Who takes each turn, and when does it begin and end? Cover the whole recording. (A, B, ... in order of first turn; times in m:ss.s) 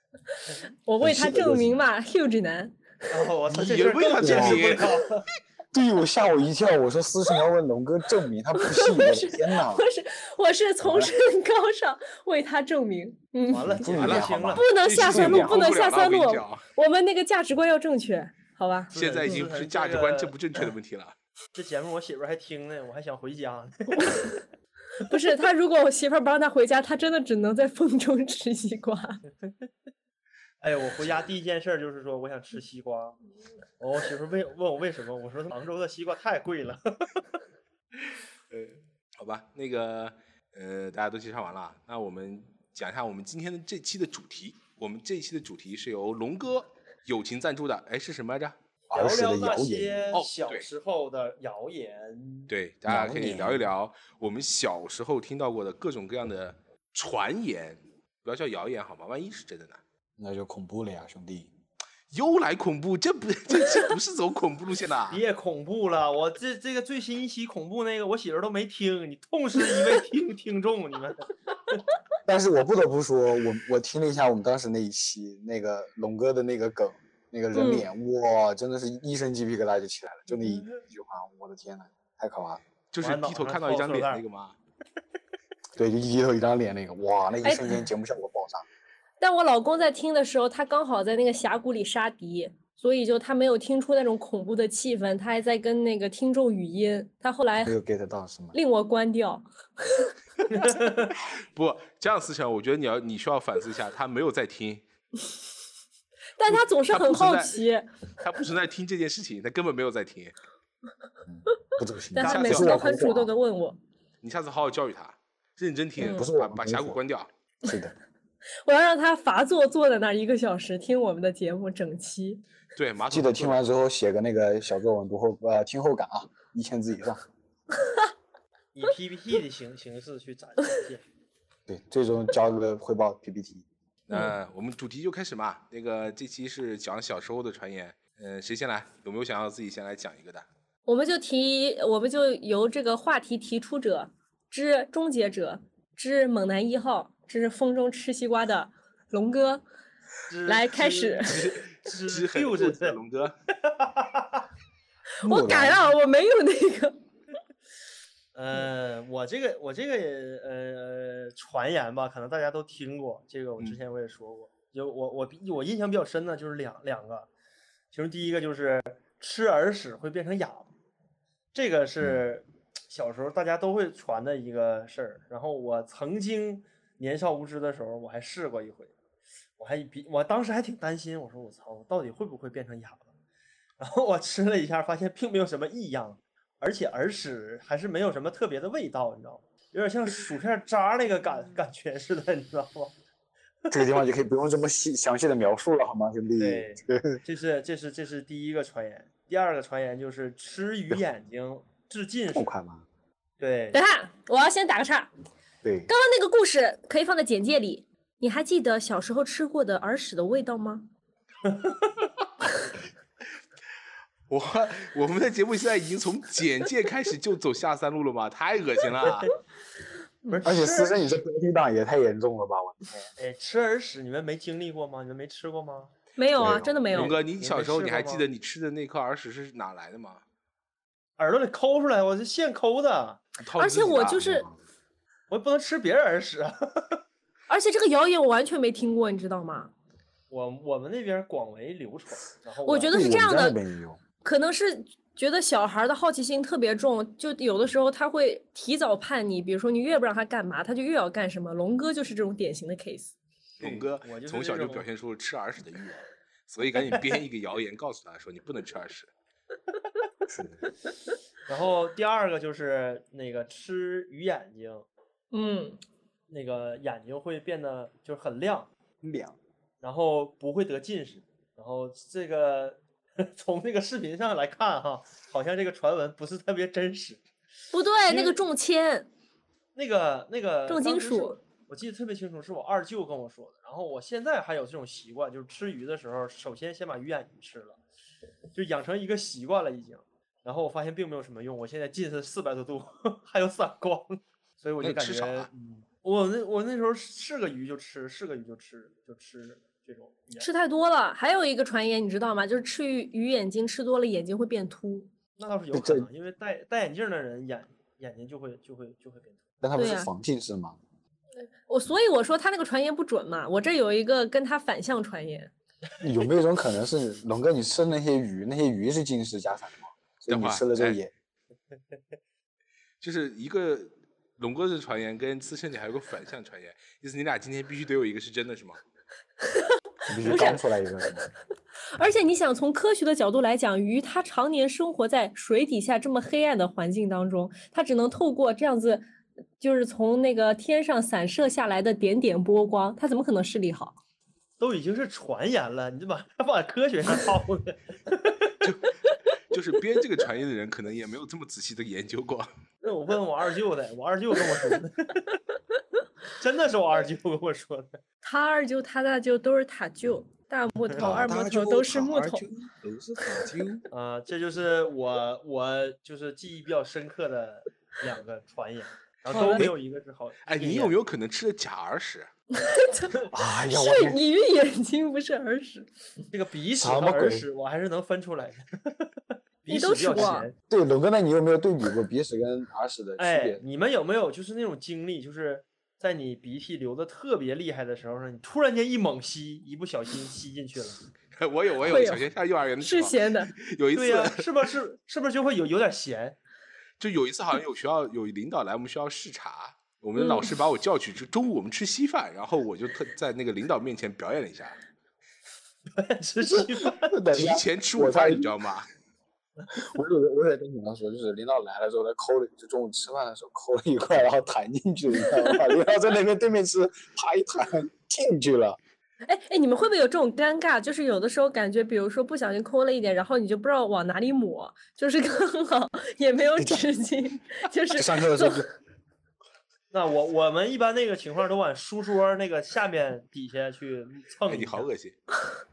0:00.8-0:02.7 A
0:01.0-0:01.8 B
0:03.1-0:05.2 C
0:03.5-0:05.0 D
0:04.2-0:04.7 B
0:05.7-0:09.9 B
0:08.6-0:13.8 A
0:10.8-0:11.1 B
0:13.5-0:14.7 C
0:13.6-0:15.6 B
0:13.9-0:16.6 D
0:14.5-0:19.4 A
0:18.9-0:21.1 D
0:18.9-0:20.4 C
0:21.5-0:24.4 C
0:25.0-0:29.2 A
0:30.6-0:33.2 C
0:33.8-0:37.2 C
0:38.5-0:48.5 D
0:48.9-0:50.1 B
0:48.9-0:52.5 C
0:50.1-0:50.7 D
0:52.5-0:59.8 D
0:52.9-0:53.6 B
1:00.2-1:01.5 B
1:02.1-1:05.2 D
1:05.1-1:11.8 C
1:12.2-1:22.6 B
1:17.5-1:17.9 A
1:22.9-1:24.5 D
1:23.0-1:24.2 C
1:25.7-1:28.6 B
1:27.4-1:27.8 A
1:29.2-1:37.7 A
1:37.6-1:38.5 B
1:38.5-1:40.1 A
1:40.5-1:41.1 C
1:40.6-1:44.8 D
1:46.4-1:47.9 A
1:46.5-1:47.6 D
1:48.2-1:50.4 D
1:51.3-1:53.3 B
1:52.1-1:53.8 A
1:52.2-1:52.7 D
1:54.2-1:57.3 D
1:56.0-1:57.0 B
1:56.0-1:56.3 A
1:57.6-1:57.9 B
1:58.6-2:02.4 A
2:02.8-2:03.6 D
2:03.1-2:07.2 B
2:08.7-2:11.0 C
2:11.7-2:13.6 B
2:14.1-2:20.4 D
2:20.8-2:29.6 A
2:30.3-2:33.0 C
2:30.5-2:31.4 A
2:31.2-2:33.3 D
2:33.6-2:34.4 C
2:35.2-2:37.0 A
2:35.2-2:35.9 B
2:38.3-2:47.3 C
2:47.9-2:50.7 C
2:51.5-2:58.9 C
2:59.6-3:03.1 C
3:03.8-3:12.9 C
3:13.7-3:17.2 B
3:16.4-3:22.5 C
3:22.3-3:22.8 B
3:23.4-3:23.8 C
3:23.7-3:25.1 A
3:25.6-3:25.9 B
3:25.9-3:30.8 A
3:31.4-3:31.9 C
3:34.3-3:39.4 D
3:40.3-3:41.2 C
3:40.4-3:43.1 B
3:43.2-3:45.9 C
3:46.2-3:47.1 A
3:46.4-3:46.9 B
3:46.4-3:50.2 D
3:47.0-3:48.3 C
3:51.2-3:53.2 C
3:53.4-3:54.2 D
3:53.6-3:54.5 A
3:54.2-3:54.5 B
3:55.3-3:57.0 C
3:57.5-3:59.7 A
4:00.3-4:03.1 C
4:02.6-4:03.6 A
4:02.9-4:04.0 B
4:04.2-4:13.1 A
4:13.6-4:19.1 D
4:13.6-4:14.9 C
4:20.3-4:20.6 B
4:21.5-4:24.8 C
4:25.3-4:25.8 A
4:26.3-4:28.7 C
4:29.0-4:29.4 B
4:29.8-4:37.3 C
4:37.7-4:39.1 A
4:38.1-4:38.4 C
4:39.7-4:47.8 C
4:40.7-4:41.4 A
4:48.5-5:00.5 C
4:54.8-4:55.5 D
5:00.4-5:05.1 A
5:05.4-5:09.4 C
5:05.7-5:06.1 B
5:09.6-5:10.8 B
5:09.8-5:10.1 A
5:11.6-5:15.5 A
5:16.0-5:21.1 B
5:20.3-5:21.0 D
5:23.0-5:28.8 D
5:30.1-5:31.3 B
5:30.2-5:30.6 A
5:31.9-5:39.0 A
5:39.6-5:44.0 A
5:44.6-5:48.6 C
5:48.6-5:49.0 D
5:49.5-5:52.5 D
5:52.8-5:55.4 C
5:56.4-5:58.0 C
5:58.2-6:02.4 A
6:00.9-6:01.1 C
6:01.0-6:03.8 B
6:03.9-6:10.9 C
6:09.3-6:09.7 A
6:09.3-6:09.7 D
6:10.4-6:12.3 D
6:12.6-6:15.9 A
6:13.3-6:14.2 B
6:16.3-6:20.5 C
6:16.8-6:17.5 B
6:19.7-6:20.5 A
6:20.2-6:23.6 B
6:23.2-6:31.0 C
6:31.3-6:34.7 D
6:31.8-6:32.3 A
6:32.8-6:33.5 A
6:33.9-6:36.4 C
6:37.0-6:44.8 D
6:40.2-6:40.5 A
6:45.9-6:47.2 C
6:46.5-6:48.5 B
6:47.3-6:48.9 D
6:49.7-6:58.8 B
6:59.2-7:08.7 A
7:06.6-7:06.8 B
7:07.9-7:08.7 B
7:09.9-7:14.9 C
7:14.5-7:15.2 D